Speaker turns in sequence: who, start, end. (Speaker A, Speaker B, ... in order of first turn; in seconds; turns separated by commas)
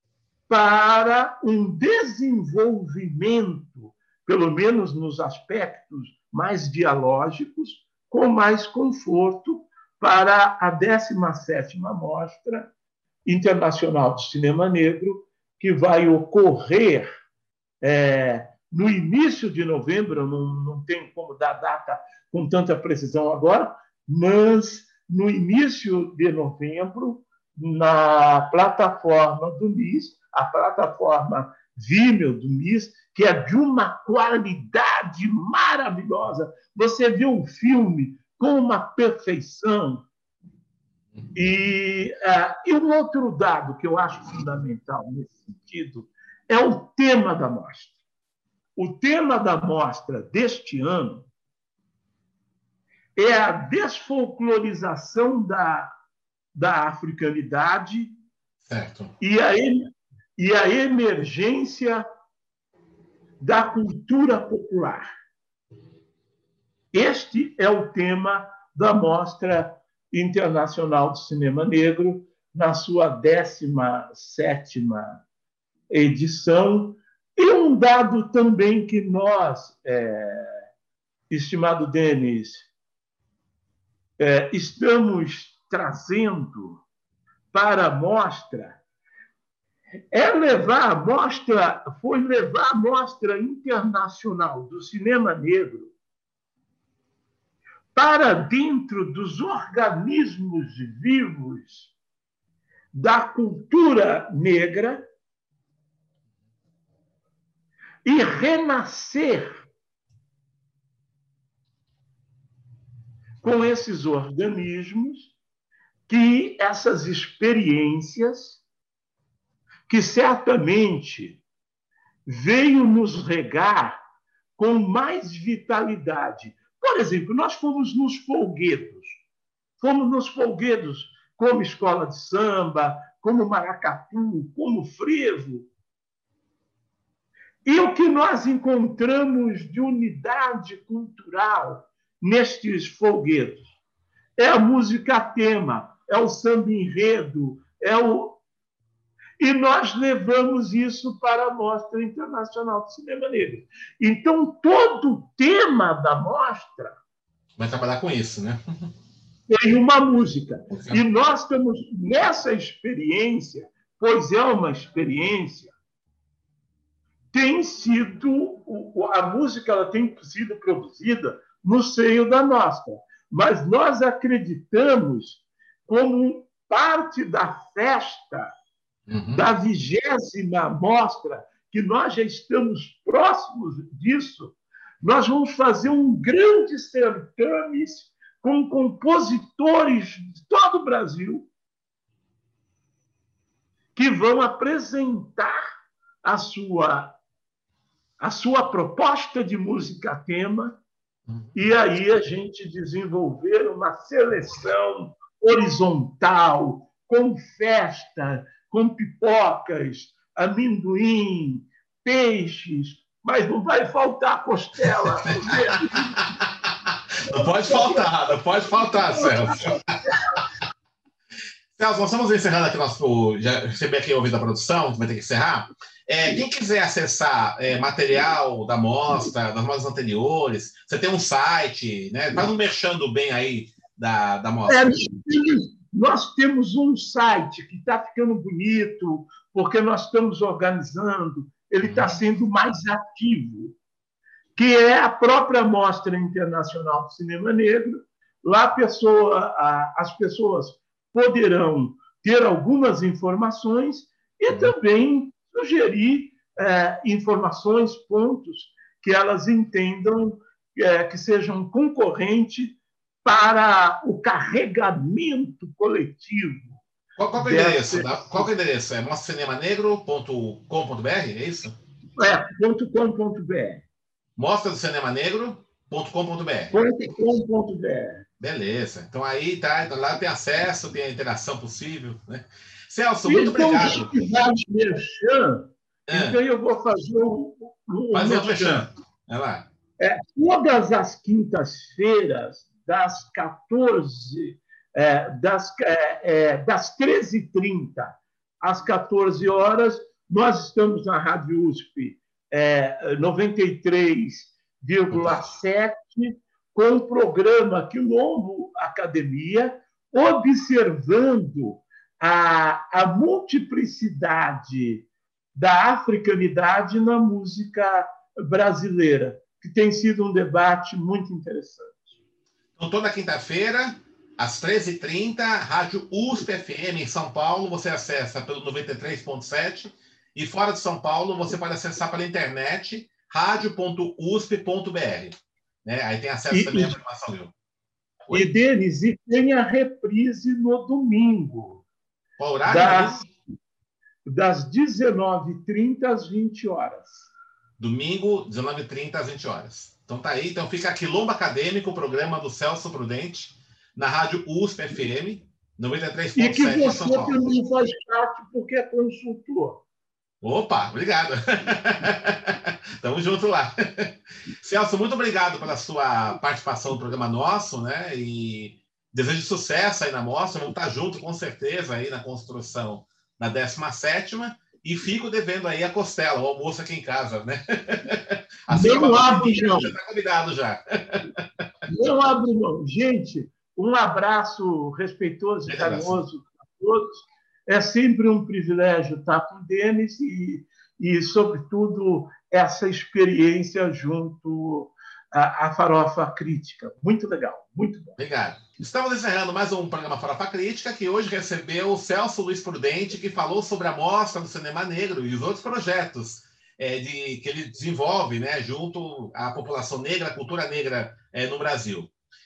Speaker A: 0.5-12.7, Speaker A: 13.3-17.1, Speaker A: 17.8-40.0, Speaker A: 41.4-48.0, Speaker A: 48.8-51.3, Speaker A: 53.2-55.9, Speaker A: 56.5-58.1, Speaker B: 58.6-59.1, Speaker A: 59.2-59.8, Speaker A: 60.4-62.0, Speaker A: 63.4-65.1, Speaker A: 66.9-75.2, Speaker A: 75.9-80.6, Speaker A: 81.3-82.7, Speaker A: 84.2-86.8, Speaker A: 87.5-88.8, Speaker A: 90.1-95.9, Speaker A: 98.0-101.9, Speaker A: 102.9-105.0, Speaker A: 108.0-109.7, Speaker A: 113.4-115.3, Speaker A: 116.1-118.6, Speaker A: 119.9-121.4, Speaker A: 122.3-124.0, Speaker A: 124.6-129.2, Speaker A: 129.8-135.7, Speaker A: 137.7-143.7, Speaker A: 144.4-148.4, Speaker A: 149.4-157.0, Speaker B: 157.6-158.6, Speaker A: 159.5-165.7, Speaker B: 160.7-161.0, Speaker A: 167.3-178.5, Speaker B: 179.1-179.4, Speaker A: 179.3-191.5, Speaker A: 193.9-195.6, Speaker A: 196.2-197.2, Speaker A: 198.2-200.8, Speaker B: 201.3-201.6, Speaker A: 201.5-216.2, Speaker B: 215.2-219.9, Speaker A: 217.3-218.1, Speaker A: 218.6-220.4, Speaker B: 221.8-235.1, Speaker A: 234.7-243.8, Speaker B: 241.8-242.2, Speaker A: 244.6-266.8, Speaker B: 267.2-271.8, Speaker A: 267.4-268.5, Speaker A: 272.2-273.9, Speaker B: 274.4-276.8, Speaker A: 276.7-278.2, Speaker B: 278.4-284.1, Speaker A: 283.3-288.9, Speaker B: 286.1-286.4, Speaker B: 288.1-289.7, Speaker A: 290.0-322.2, Speaker B: 305.1-305.5, Speaker B: 322.8-337.5, Speaker A: 336.5-337.0, Speaker A: 338.3-341.8, Speaker B: 342.4-343.2, Speaker A: 342.6-343.2, Speaker A: 344.3-347.3, Speaker B: 347.8-357.4, Speaker A: 356.4-359.8, Speaker B: 360.4-381.4, Speaker A: 378.7-379.9, Speaker A: 381.9-398.2, Speaker B: 385.7-386.2, Speaker B: 398.2-412.1